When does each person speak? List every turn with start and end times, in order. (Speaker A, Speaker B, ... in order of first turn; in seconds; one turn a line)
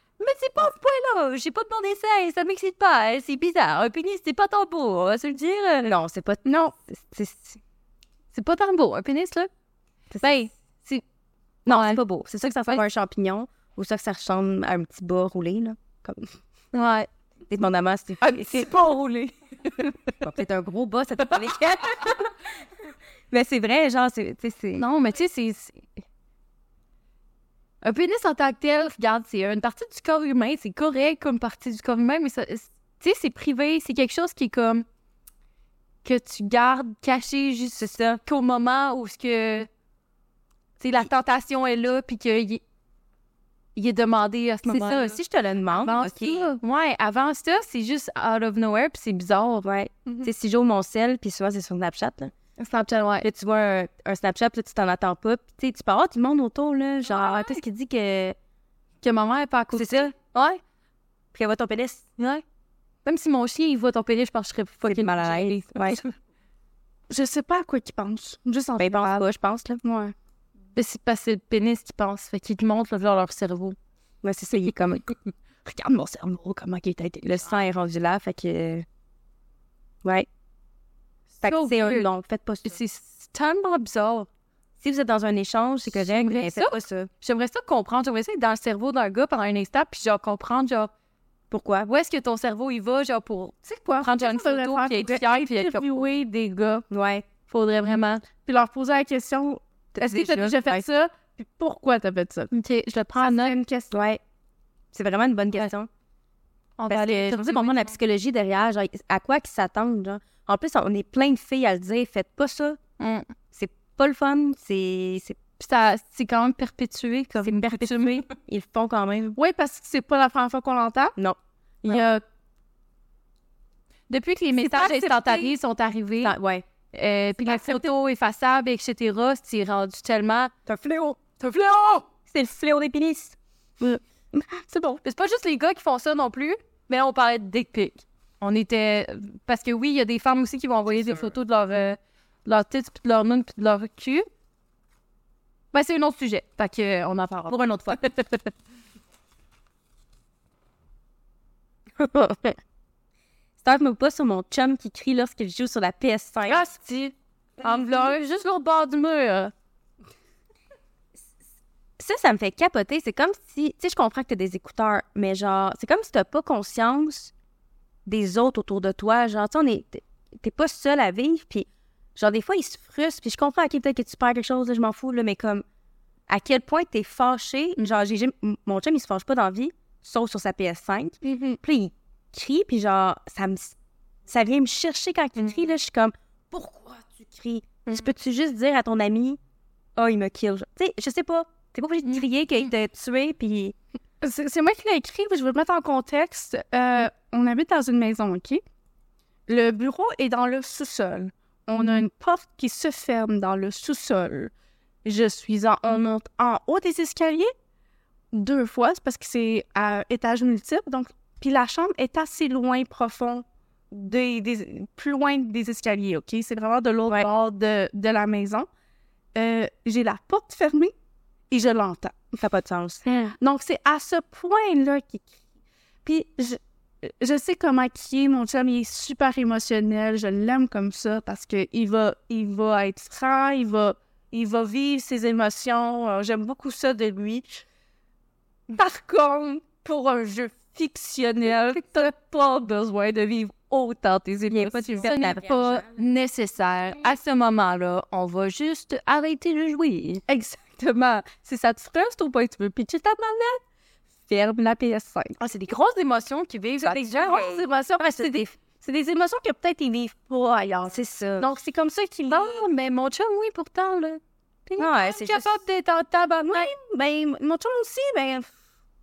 Speaker A: 0.2-5.9
Speaker B: 5.8-7.6
Speaker C: 6.4-6.7
Speaker A: 8.3-9.5
Speaker B: 10.1-10.4
Speaker A: 10.2-11.0
Speaker B: 11.7-16.3
Speaker A: 11.7-12.0
Speaker A: 16.7-17.1
Speaker B: 17.5-18.7
Speaker A: 18.2-19.9
Speaker B: 20.2-22.3
Speaker B: 23.3-24.8
Speaker A: 24.7-25.9
Speaker A: 27.8-34.8
Speaker A: 36.0-39.7
Speaker B: 37.8-38.2
Speaker A: 40.8-42.6
Speaker A: 43.8-45.2
Speaker B: 44.6-46.4
Speaker A: 45.8-50.2
Speaker B: 49.6-52.3
Speaker A: 52.6-53.3
Speaker B: 53.2-58.4
Speaker A: 59.0-60.6
Speaker B: 59.7-60.1
Speaker B: 61.3-62.0
Speaker A: 62.2-62.4
Speaker A: 63.0-66.1
Speaker B: 64.8-66.0
Speaker C: 67.1-69.2
Speaker B: 68.8-69.8
Speaker C: 69.8-70.1
Speaker A: 70.8-73.8
Speaker B: 74.2-75.1
Speaker C: 75.7-77.3
Speaker B: 77.2-78.8
Speaker A: 81.4-82.1
Speaker B: 81.4-82.8
Speaker A: 82.6-84.3
Speaker B: 84.8-87.1
Speaker A: 85.9-90.9
Speaker B: 91.5-91.9
Speaker A: 91.8-95.8
Speaker C: 93.6-96.8
Speaker B: 96.9-97.3
Speaker A: 97.5-98.2
Speaker C: 98.5-102.5
Speaker B: 100.0-100.8
Speaker A: 102.5-103.5
Speaker C: 103.2-103.9
Speaker B: 103.9-104.2
Speaker B: 104.9-105.9
Speaker A: 106.8-107.9
Speaker B: 106.9-112.8
Speaker A: 113.0-113.3
Speaker B: 113.5-115.4
Speaker A: 115.6-118.3
Speaker B: 117.3-119.3
Speaker C: 119.3-121.1
Speaker B: 121.2-122.1
Speaker C: 121.8-122.2
Speaker A: 124.1-126.3
Speaker C: 124.7-125.4
Speaker B: 124.7-125.4
Speaker B: 126.2-126.6
Speaker A: 126.9-130.5
Speaker B: 130.7-131.2
Speaker A: 131.4-132.0
Speaker B: 132.3-133.3
Speaker C: 133.8-135.0
Speaker A: 135.0-144.3
Speaker A: 145.7-148.5
Speaker B: 152.0-152.6
Speaker B: 153.6-156.6
Speaker A: 156.5-159.5
Speaker C: 156.6-156.9
Speaker B: 162.0-167.3
Speaker B: 168.1-175.6
Speaker B: 176.3-183.7
Speaker C: 181.2-181.6
Speaker B: 184.3-189.4
Speaker B: 189.9-193.8
Speaker C: 194.2-198.6
Speaker C: 199.5-204.5
Speaker C: 205.0-207.5
Speaker C: 208.3-218.7
Speaker C: 219.3-220.9
Speaker C: 221.5-222.4
Speaker B: 222.4-223.0
Speaker C: 223.0-225.3
Speaker C: 226.1-237.6
Speaker C: 238.7-245.1
Speaker B: 244.5-245.8
Speaker A: 244.9-250.2
Speaker C: 250.3-253.6
Speaker C: 254.3-255.4
Speaker A: 255.4-257.6
Speaker C: 256.9-262.6
Speaker B: 260.9-261.5
Speaker A: 262.3-266.7
Speaker B: 264.8-265.6
Speaker C: 266.5-268.5